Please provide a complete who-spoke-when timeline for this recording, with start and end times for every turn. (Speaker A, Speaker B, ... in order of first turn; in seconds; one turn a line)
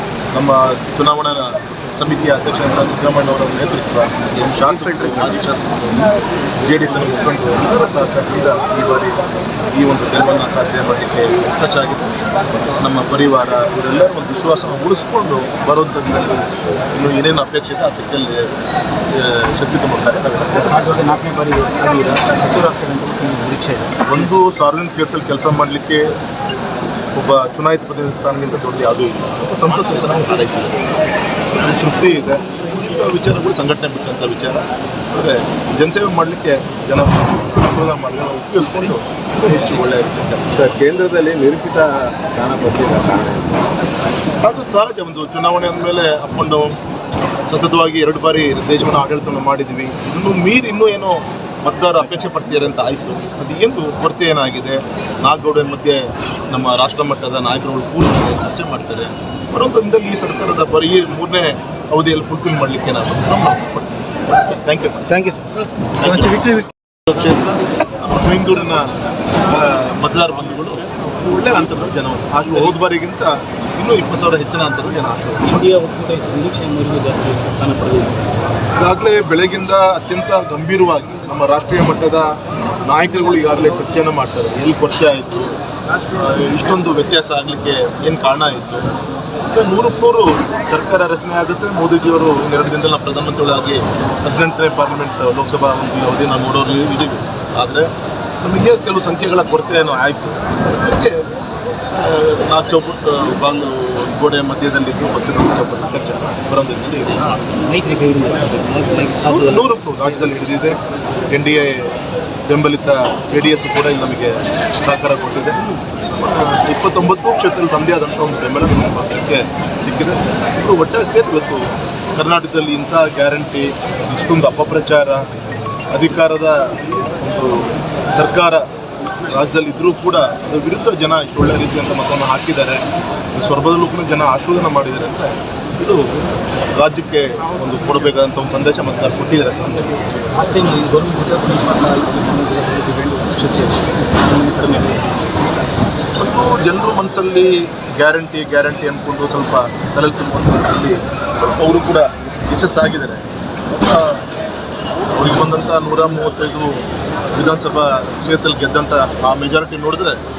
Speaker A: 0.3-6.1
Speaker A: 6.6-12.1
Speaker A: 12.8-18.5
Speaker A: 19.1-21.2
Speaker B: 20.5-24.3
Speaker A: 24.1-26.1
Speaker A: 27.1-30.7
Speaker A: 31.5-40.7
Speaker C: 40.6-43.7
Speaker A: 44.4-46.7
Speaker A: 47.5-65.4
Speaker A: 66.0-68.9
Speaker A: 69.4-75.5
Speaker B: 75.4-78.3
Speaker A: 78.7-82.3
Speaker A: 82.8-85.5
Speaker A: 86.1-88.9
Speaker A: 89.5-97.9
Speaker A: 98.4-101.3
Speaker A: 101.9-107.3
Speaker B: 107.2-110.3
Speaker A: 109.3-110.8
Speaker A: 111.3-111.9
Speaker A: 112.5-115.6
Speaker A: 116.1-125.2
Speaker A: 125.9-128.6
Speaker A: 129.2-132.8
Speaker A: 133.3-136.0
Speaker A: 136.8-140.0
Speaker B: 140.3-145.2
Speaker A: 146.2-154.2
Speaker A: 155.1-156.8
Speaker A: 157.3-160.2